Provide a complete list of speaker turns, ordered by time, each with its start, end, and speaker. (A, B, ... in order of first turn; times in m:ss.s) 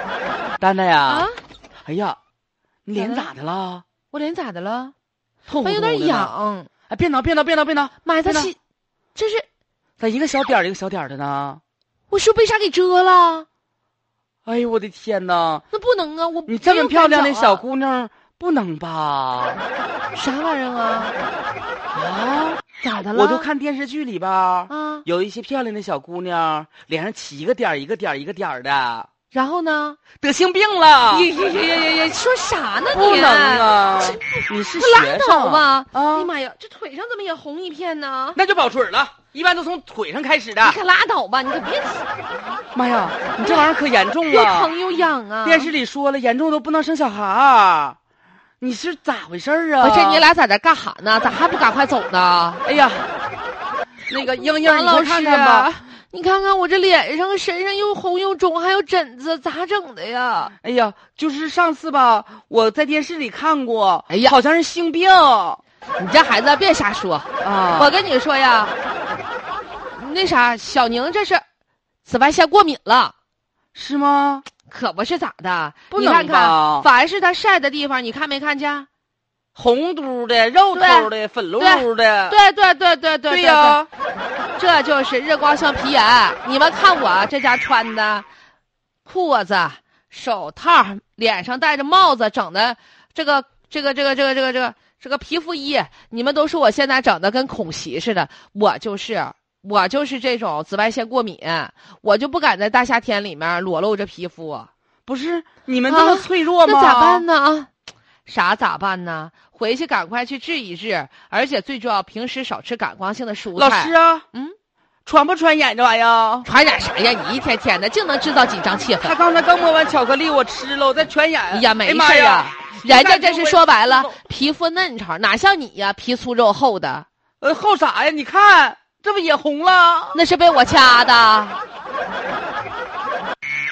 0:00.6-0:01.3 A
0:01.1-0:01.4 B
0:01.8-0:02.2 A
0:02.8-0:03.8 A
0:02.9-0:03.3 B
0:04.1-0:04.9 B
0:05.5-0:06.3 A
0:05.6-0:06.7 B
0:06.9-0:08.5 A
0:08.0-0:08.6 B
0:09.1-0:09.4 B
0:10.0-0:11.6 A
0:12.1-0:13.4 B
0:14.4-0:15.6 A
0:15.7-0:17.6 B
0:16.5-0:19.6 A
0:20.1-0:21.2 B
0:21.9-0:29.1 A
0:22.8-0:23.5 B
0:24.7-0:25.0 B
0:29.3-0:30.0 B
0:30.2-0:31.3 A
0:31.1-0:38.4 B
0:32.9-0:36.3 A
0:38.3-0:40.8 A
0:40.6-0:42.0 B
0:42.7-0:44.7 A
0:43.4-0:43.7 B
0:44.3-0:45.7 B
0:45.4-0:48.0 A
0:48.6-0:50.2 A
0:49.8-0:52.6 B
0:52.6-0:53.1 A
0:54.1-0:55.7 A
0:54.2-1:00.5 B
1:00.6-1:05.6 A
1:04.1-1:04.3 B
1:06.0-1:08.8 B
1:07.4-1:07.9 A
1:09.9-1:11.4 B
1:12.0-1:13.1 B
1:13.7-1:14.4 A
1:14.7-1:18.9 B
1:15.9-1:16.9 A
1:19.5-1:22.4 A
1:20.7-1:23.8 B
1:23.3-1:23.9 A
1:24.6-1:28.2 B
1:29.0-1:44.7 B
1:45.1-1:47.2 A
1:45.9-1:47.7 B
1:48.2-1:54.5 B
1:53.5-1:54.2 A
1:55.0-1:56.5 A
1:56.4-1:59.2 B
1:59.0-2:04.2 A
2:01.5-2:07.0 B
2:07.4-2:10.2 A
2:10.1-2:11.6 B